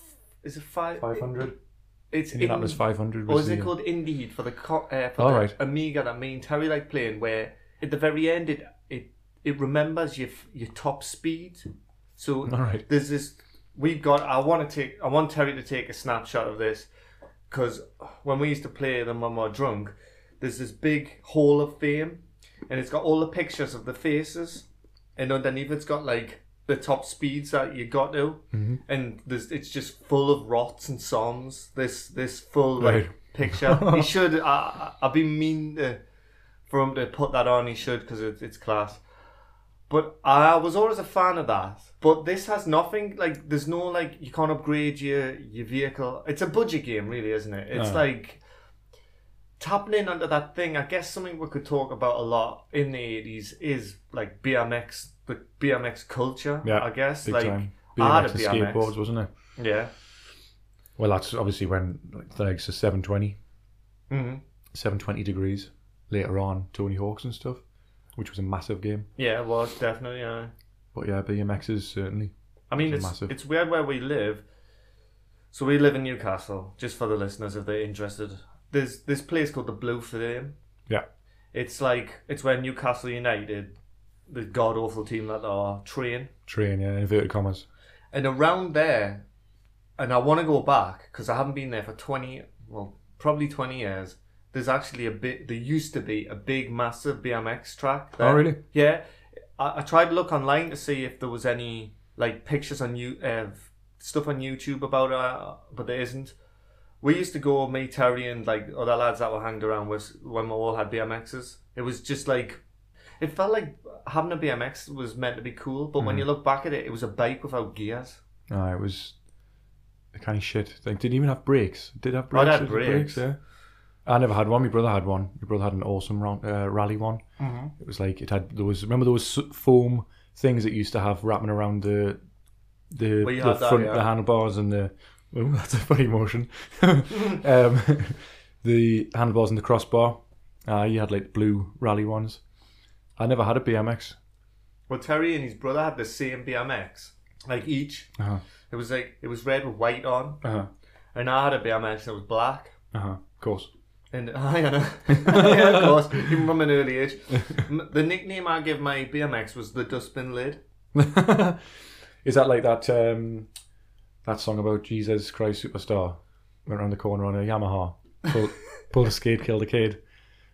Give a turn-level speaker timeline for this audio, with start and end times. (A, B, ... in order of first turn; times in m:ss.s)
0:00.4-0:01.3 A
0:01.0-0:01.5 B
0:02.1-0:16.9 A
0:02.3-0:03.7 B
0:05.2-0:05.5 B
0:12.5-0:12.8 B
0:17.5-0:24.6 A
0:25.2-0:36.0 A
0:28.5-0:28.8 B
0:32.8-0:34.2 B
0:36.7-0:39.0 A
0:39.9-0:48.4 A
0:47.7-0:48.0 B
0:49.6-0:58.9 A
0:56.6-0:59.3 B
0:59.6-0:59.9 A
1:01.0-1:03.4 B
1:04.1-1:04.4 A
1:04.7-1:07.6 B
1:08.2-1:09.1 B
1:09.2-1:10.5 A
1:10.9-1:13.3 B
1:12.7-1:14.4 A
1:15.5-1:20.5 A
1:21.5-1:23.7 A
1:24.3-1:26.3 A
1:26.5-1:27.6 B
1:28.1-1:29.2 A
1:30.0-1:39.0 A
1:38.2-1:38.6 B
1:39.6-1:46.3 A
1:47.0-1:52.6 A
1:53.2-1:58.2 A
1:56.0-1:56.2 B
1:58.5-1:59.1 B
2:00.1-2:03.4 B
2:02.3-2:03.2 A
2:04.0-2:07.2 B
2:07.4-2:07.7 A
2:07.8-2:12.2 B
2:12.9-2:22.4 B
2:13.2-2:14.0 A
2:23.2-2:24.2 B
2:24.9-2:28.1 A
2:28.7-2:30.4 A
2:30.4-2:30.7 B
2:31.1-2:32.7 A
2:32.9-2:33.7 B
2:34.1-2:40.6 A
2:35.2-2:35.9 B
2:40.9-2:41.6 B
2:42.2-2:43.5 B
2:44.2-2:50.0 B